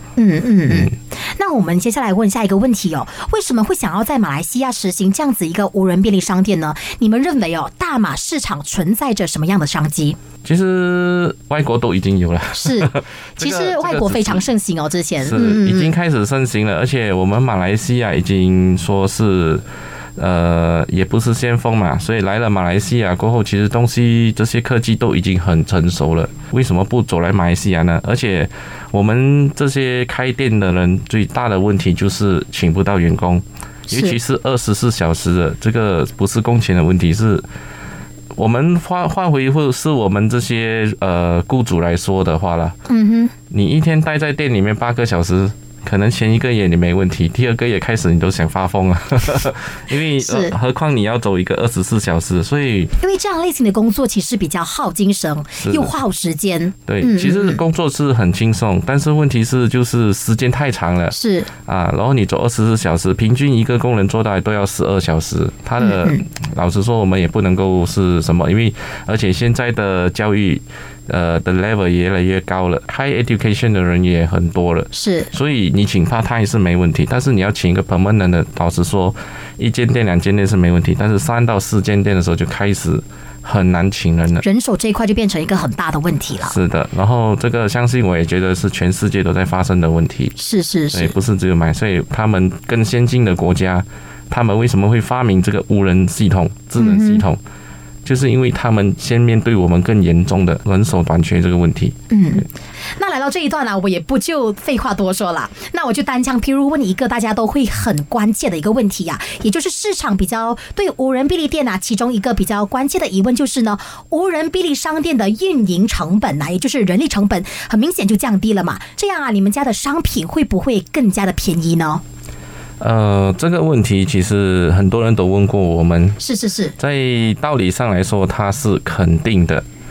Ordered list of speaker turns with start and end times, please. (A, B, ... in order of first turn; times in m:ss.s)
0:00.2-0:10.2 A
0:00.7-0:00.9 B
0:10.4-0:14.4 B
0:12.5-0:15.9 A
0:15.2-0:19.6 B
0:20.2-0:37.4 B
0:33.9-0:34.2 A
0:38.4-0:42.8 B
0:42.9-0:43.3 A
0:43.5-0:52.9 B
0:50.2-0:50.5 A
0:53.0-0:57.6 A
0:55.6-0:55.9 B
0:56.9-1:24.4 B
1:01.1-1:01.5 A
1:05.8-1:06.2 A
1:14.9-1:15.3 A
1:24.4-1:26.5 A
1:26.4-1:30.4 B
1:30.4-1:31.1 A
1:30.9-1:37.4 B
1:36.8-1:37.2 A
1:38.0-1:42.0 B
1:42.1-1:42.4 A
1:43.0-2:02.0 A
2:02.8-2:06.2 B
2:06.2-2:06.7 A
2:06.8-2:09.6 B